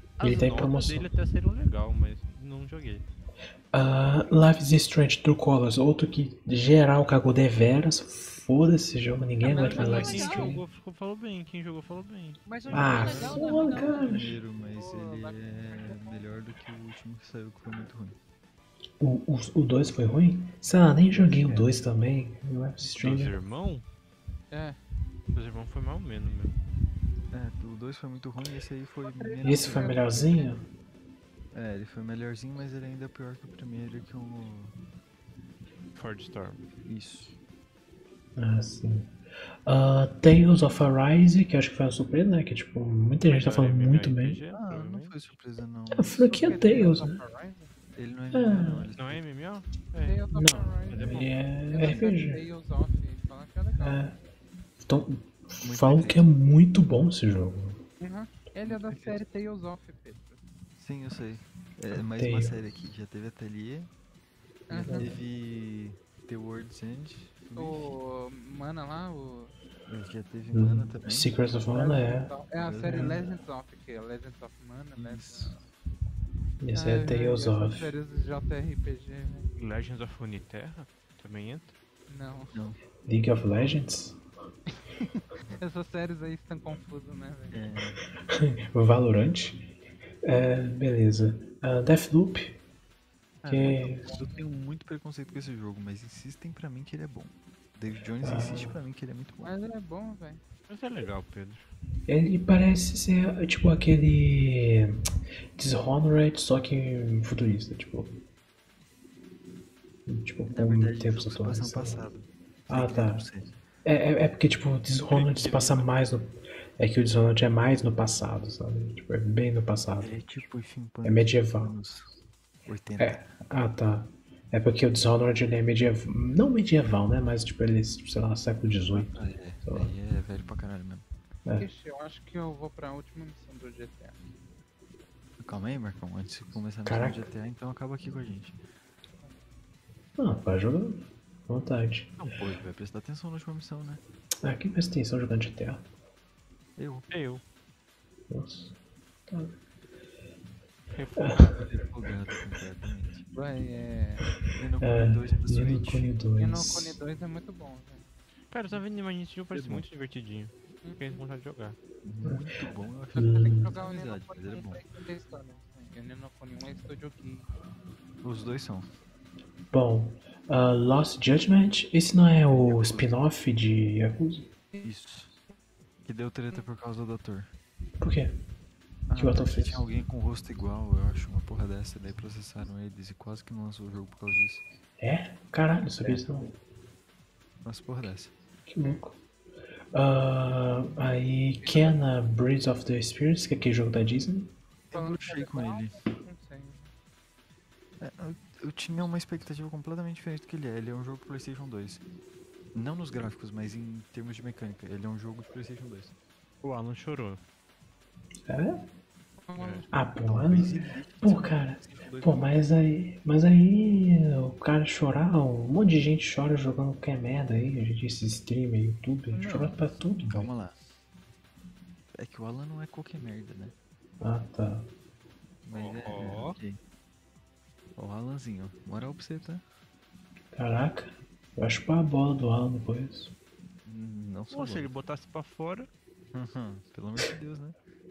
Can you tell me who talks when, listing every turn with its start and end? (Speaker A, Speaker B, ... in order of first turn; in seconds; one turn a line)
Speaker A: 0.2-3.0
Speaker B: 0.2-1.1
Speaker B: 3.7-10.6
Speaker C: 9.4-10.6
Speaker A: 9.5-12.4
Speaker C: 12.4-14.2
Speaker D: 12.6-18.2
Speaker B: 12.7-14.4
Speaker E: 14.5-16.3
Speaker B: 19.0-23.3
Speaker D: 21.1-21.7
Speaker A: 22.9-23.8
Speaker E: 24.5-24.8
Speaker A: 25.3-26.6
Speaker D: 27.3-30.1
Speaker E: 29.1-30.6
Speaker B: 29.4-30.6
Speaker D: 31.5-34.7
Speaker A: 35.9-36.7
Speaker D: 36.8-37.4
Speaker B: 38.4-39.1
Speaker B: 39.6-44.4
Speaker A: 43.2-45.1
Speaker D: 44.5-46.8
Speaker B: 45.9-47.2
Speaker E: 46.3-47.7
Speaker D: 47.9-49.2
Speaker B: 48.3-48.9
Speaker A: 49.0-50.2
Speaker E: 50.0-54.0
Speaker B: 50.3-52.4
Speaker A: 50.9-51.4
Speaker D: 51.8-52.0
Speaker B: 53.8-54.2
Speaker B: 54.8-57.8
Speaker D: 55.6-56.3
Speaker E: 58.0-60.4
Speaker D: 58.6-59.2
Speaker D: 60.8-63.9
Speaker B: 61.9-62.6
Speaker E: 64.7-65.2
Speaker B: 64.7-65.2
Speaker D: 64.7-67.9
Speaker E: 67.5-69.5
Speaker D: 69.9-71.6
Speaker B: 70.5-72.3
Speaker E: 71.7-75.6
Speaker D: 72.6-73.4
Speaker B: 72.8-73.2
Speaker D: 75.0-75.6
Speaker B: 76.6-77.9
Speaker E: 76.7-79.5
Speaker A: 79.6-81.7
Speaker E: 82.1-82.6
Speaker D: 82.5-82.8
Speaker B: 83.0-84.2
Speaker E: 85.5-87.6
Speaker D: 87.5-88.0
Speaker B: 88.3-89.7
Speaker B: 90.2-92.6
Speaker D: 93.4-99.5
Speaker B: 93.5-94.0
Speaker E: 93.6-94.5
Speaker B: 98.2-98.8
Speaker E: 99.4-100.4
Speaker A: 100.7-101.7
Speaker B: 102.1-105.0
Speaker B: 105.5-108.2
Speaker B: 110.1-112.0
Speaker D: 110.5-113.5
Speaker B: 112.7-113.2
Speaker B: 113.8-120.1
Speaker A: 115.0-116.0
Speaker D: 120.0-122.1
Speaker B: 121.0-121.7
Speaker D: 122.7-123.3
Speaker B: 123.0-129.9
Speaker D: 128.9-131.0
Speaker E: 131.6-134.2
Speaker D: 135.4-138.6
Speaker B: 136.8-137.3
Speaker B: 140.2-142.1
Speaker D: 142.2-144.0
Speaker B: 144.4-145.8
Speaker D: 146.8-147.1
Speaker A: 147.1-147.4
Speaker B: 148.3-148.8
Speaker B: 149.3-149.6
Speaker A: 150.9-151.6
Speaker B: 151.2-151.6
Speaker D: 151.4-153.2
Speaker E: 153.3-154.3
Speaker D: 154.5-156.1
Speaker B: 154.8-157.0
Speaker E: 156.3-158.1
Speaker A: 158.5-161.8
Speaker D: 159.5-159.8
Speaker E: 160.8-161.2
Speaker D: 162.0-164.8
Speaker B: 163.1-163.7
Speaker E: 163.1-167.5
Speaker D: 168.2-168.9
Speaker B: 169.7-174.5
Speaker D: 172.5-173.2
Speaker D: 174.8-175.3
Speaker D: 176.0-177.5
Speaker B: 178.0-178.4
Speaker D: 179.1-184.6
Speaker B: 179.2-179.9
Speaker B: 185.0-186.5
Speaker D: 186.0-186.4
Speaker D: 187.6-188.3
Speaker B: 188.7-189.2
Speaker B: 189.9-194.5
Speaker D: 194.9-196.1
Speaker E: 194.9-196.9
Speaker D: 198.0-202.0
Speaker D: 202.7-206.1
Speaker A: 206.6-207.4
Speaker B: 208.5-208.8
Speaker E: 209.4-209.9
Speaker A: 209.6-209.9
Speaker B: 209.9-220.5
Speaker D: 210.2-212.6
Speaker D: 219.3-220.9
Speaker D: 222.1-223.7
Speaker B: 224.2-224.9
Speaker D: 225.6-226.8
Speaker A: 225.7-226.6
Speaker D: 227.9-229.6
Speaker B: 230.5-233.3
Speaker D: 233.8-234.9
Speaker A: 234.5-235.9
Speaker D: 236.3-237.8